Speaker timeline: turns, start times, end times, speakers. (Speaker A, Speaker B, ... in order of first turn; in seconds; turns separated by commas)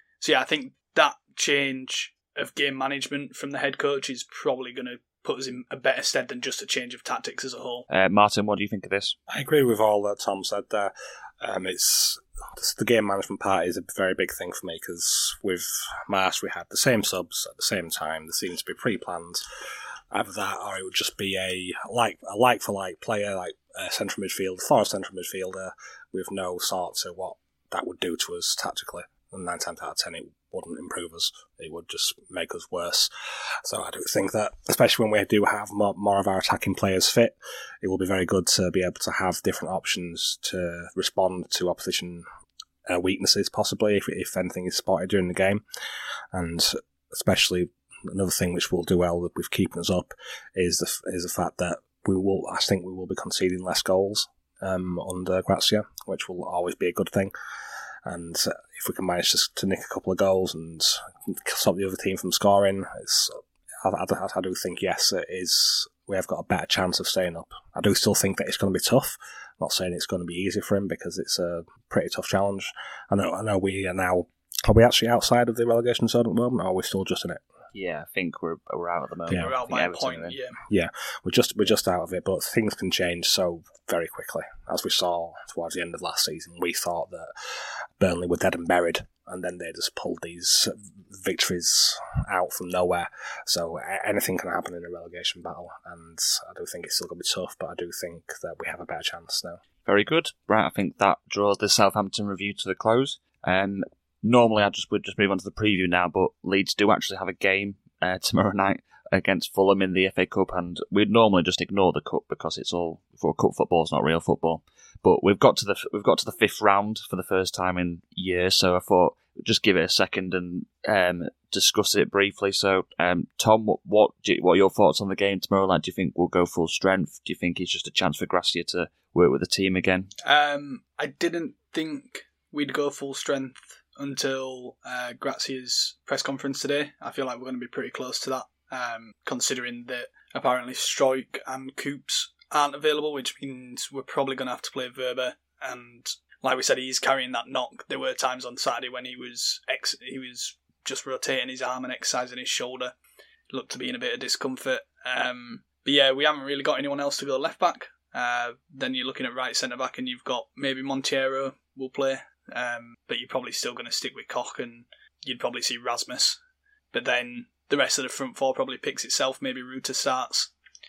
Speaker A: 0.2-7.8, Speaker B: 7.9-9.2, Speaker C: 9.3-19.4, Speaker C: 20.1-33.1, Speaker C: 33.6-42.2, Speaker C: 42.9-45.6, Speaker C: 46.3-57.3, Speaker C: 58.1-77.4, Speaker B: 77.7-80.4, Speaker A: 79.3-80.6, Speaker C: 80.7-87.3, Speaker C: 88.0-99.6, Speaker B: 99.8-130.1, Speaker A: 130.2-152.9, Speaker A: 153.5-166.4, Speaker A: 166.9-170.5